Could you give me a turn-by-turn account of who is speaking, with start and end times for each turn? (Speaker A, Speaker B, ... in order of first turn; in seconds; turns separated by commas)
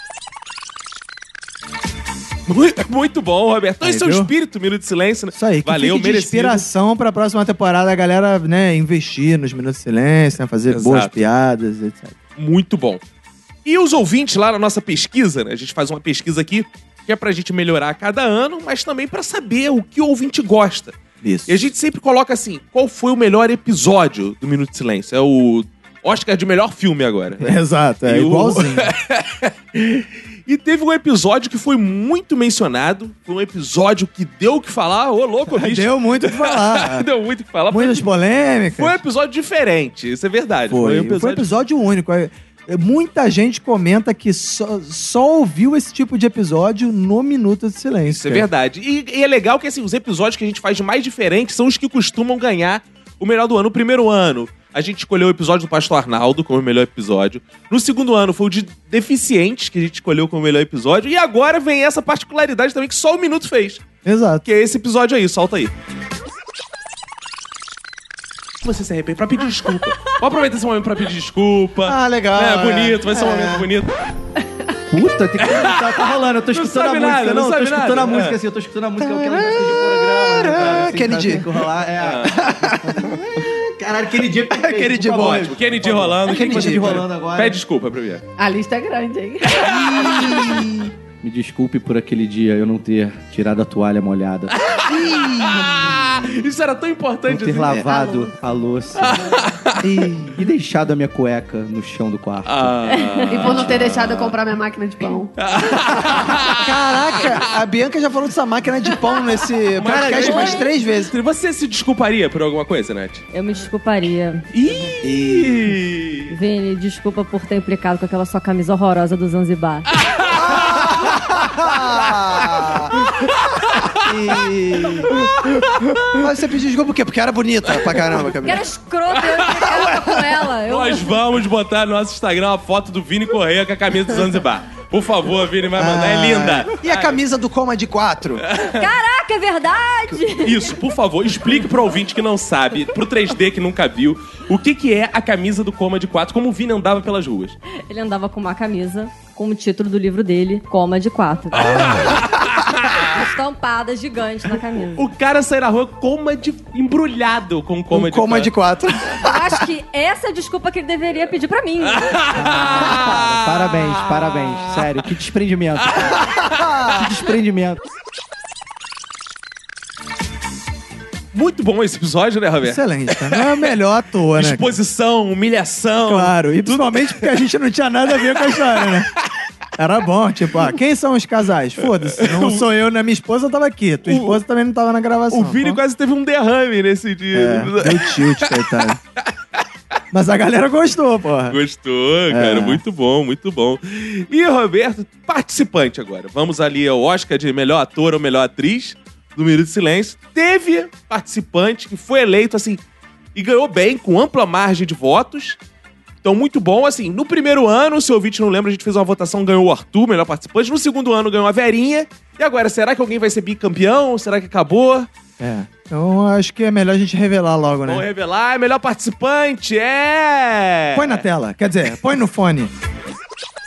Speaker A: 2.5-6.7, Speaker B: 3.8-4.3, Speaker B: 5.3-12.2, Speaker A: 10.7-11.2, Speaker A: 12.4-13.0, Speaker A: 13.6-20.9, Speaker B: 21.2-21.6, Speaker A: 21.5-38.0, Speaker B: 27.4-28.9, Speaker B: 35.5-37.0, Speaker B: 37.7-39.0, Speaker A: 38.8-41.5, Speaker B: 40.7-48.5, Speaker A: 48.1-63.9, Speaker B: 64.0-64.4, Speaker A: 64.4-65.7, Speaker A: 68.6-73.9, Speaker B: 71.9-73.6, Speaker C: 74.9-83.0, Speaker A: 75.5-78.4, Speaker B: 80.4-81.5, Speaker A: 82.0-82.3, Speaker B: 82.5-82.9, Speaker C: 83.8-87.6, Speaker B: 84.6-85.6, Speaker A: 85.5-88.2, Speaker B: 86.3-87.0, Speaker D: 88.4-89.6, Speaker B: 89.7-90.8, Speaker C: 91.2-94.5, Speaker A: 94.7-98.0, Speaker B: 94.9-95.6, Speaker C: 97.3-99.2, Speaker A: 99.0-99.8, Speaker B: 99.8-100.4, Speaker C: 100.4-102.8, Speaker A: 102.5-104.3, Speaker D: 103.3-105.3, Speaker A: 105.4-106.6, Speaker B: 106.6-111.1, Speaker A: 109.8-113.2, Speaker E: 110.2-110.6, Speaker E: 113.3-114.4, Speaker A: 114.5-116.3, Speaker B: 115.1-115.6, Speaker E: 116.3-119.8, Speaker B: 121.6-122.9, Speaker B: 124.0-125.1, Speaker B: 126.2-128.6, Speaker E: 128.4-131.2, Speaker A: 129.1-129.7, Speaker A: 130.6-137.2, Speaker B: 135.8-138.4, Speaker A: 138.5-138.9, Speaker E: 138.7-140.7, Speaker A: 140.4-147.5, Speaker E: 147.9-152.1, Speaker E: 153.1-155.0, Speaker A: 155.0-158.5, Speaker B: 157.9-159.3, Speaker E: 159.2-162.1, Speaker A: 162.3-163.3, Speaker C: 162.4-166.2, Speaker C: 166.9-167.8, Speaker A: 171.3-173.5, Speaker B: 172.6-174.8, Speaker A: 174.4-177.2, Speaker B: 176.0-179.1, Speaker B: 179.8-185.8, Speaker A: 182.2-182.6, Speaker A: 184.1-184.4, Speaker A: 185.3-188.5, Speaker B: 187.3-189.0, Speaker B: 190.1-191.6, Speaker A: 191.5-202.8, Speaker B: 192.3-192.8, Speaker A: 203.3-205.6, Speaker A: 206.2-215.1, Speaker B: 215.4-218.0, Speaker A: 217.9-221.2, Speaker B: 220.9-222.7